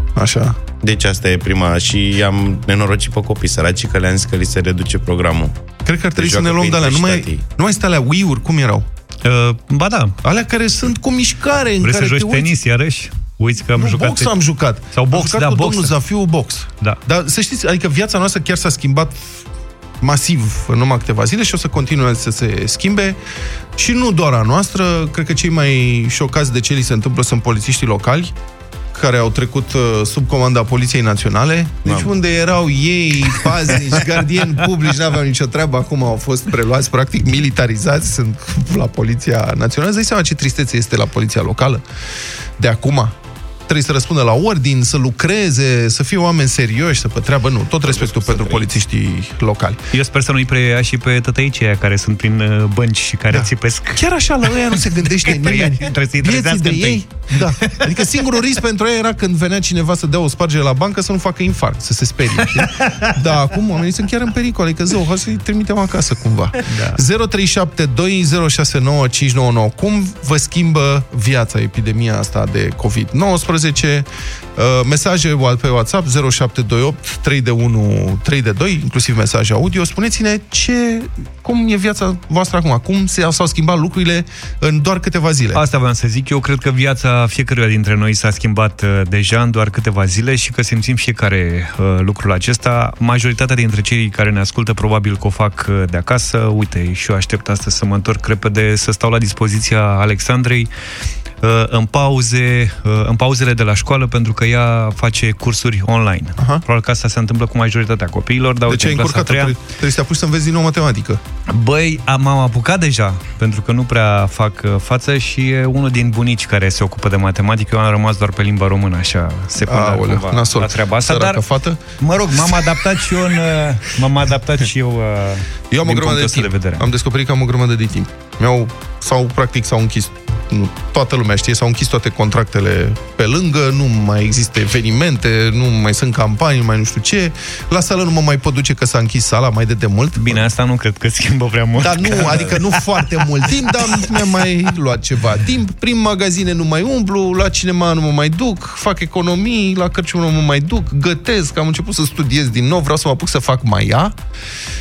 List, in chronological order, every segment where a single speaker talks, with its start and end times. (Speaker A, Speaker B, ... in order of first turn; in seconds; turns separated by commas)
Speaker A: 0.1-0.6, Speaker B: 0.8-5.5, Speaker A: 5.8-8.9, Speaker B: 6.2-7.4, Speaker C: 9.2-10.2, Speaker A: 10.2-12.5, Speaker C: 11.8-14.3, Speaker A: 13.7-19.4, Speaker C: 14.9-15.9, Speaker A: 20.0-23.2, Speaker A: 23.8-28.3, Speaker A: 28.9-41.8, Speaker A: 42.6-43.1, Speaker A: 43.7-49.8, Speaker B: 47.9-48.6, Speaker C: 49.9-54.0, Speaker A: 53.3-85.6, Speaker C: 55.2-57.9, Speaker C: 62.6-63.1, Speaker C: 66.6-67.0, Speaker C: 85.5-100.7, Speaker C: 101.4-109.5, Speaker A: 106.4-106.6, Speaker A: 108.7-111.2, Speaker C: 111.5-121.4, Speaker A: 119.6-121.8, Speaker C: 122.0-126.9, Speaker A: 125.7-140.4, Speaker C: 140.2-142.8, Speaker A: 141.8-154.2